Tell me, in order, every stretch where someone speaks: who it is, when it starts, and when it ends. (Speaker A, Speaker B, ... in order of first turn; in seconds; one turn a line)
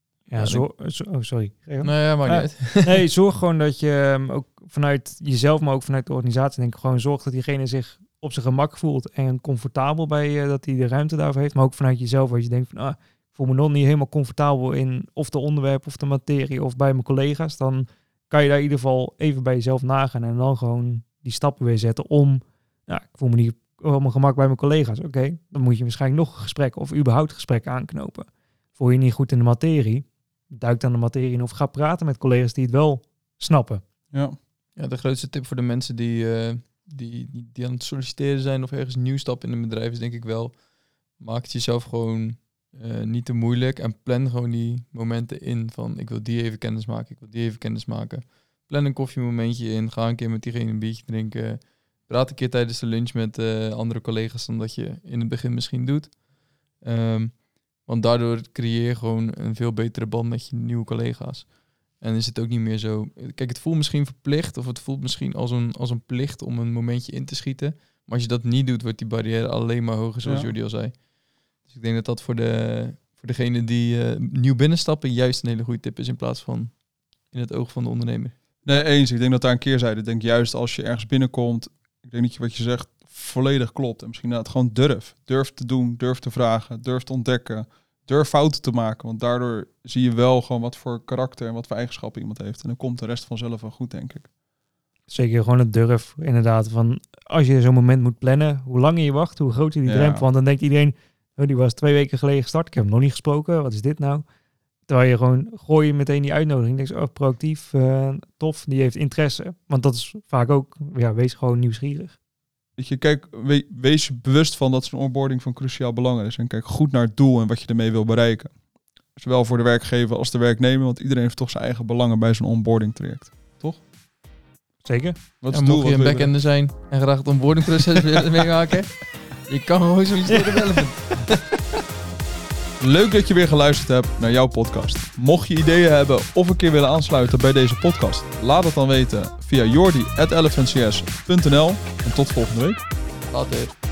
Speaker A: 0.3-33.8
Speaker B: 0.4-0.6
Speaker B: 1.8-3.0
Speaker B: 34.8-56.2
Speaker B: 56.8-71.1
Speaker C: 70.2-70.5
Speaker B: 71.6-78.3
Speaker C: 78.6-94.3
Speaker A: 95.1-104.2
Speaker C: 99.9-100.2
Speaker A: 104.9-112.2
Speaker C: 112.8-118.6
Speaker C: 119.1-123.8
Speaker A: 124.8-125.2
Speaker C: 125.4-126.3
Speaker B: 125.5-131.5
Speaker C: 132.8-142.8
Speaker B: 143.3-143.8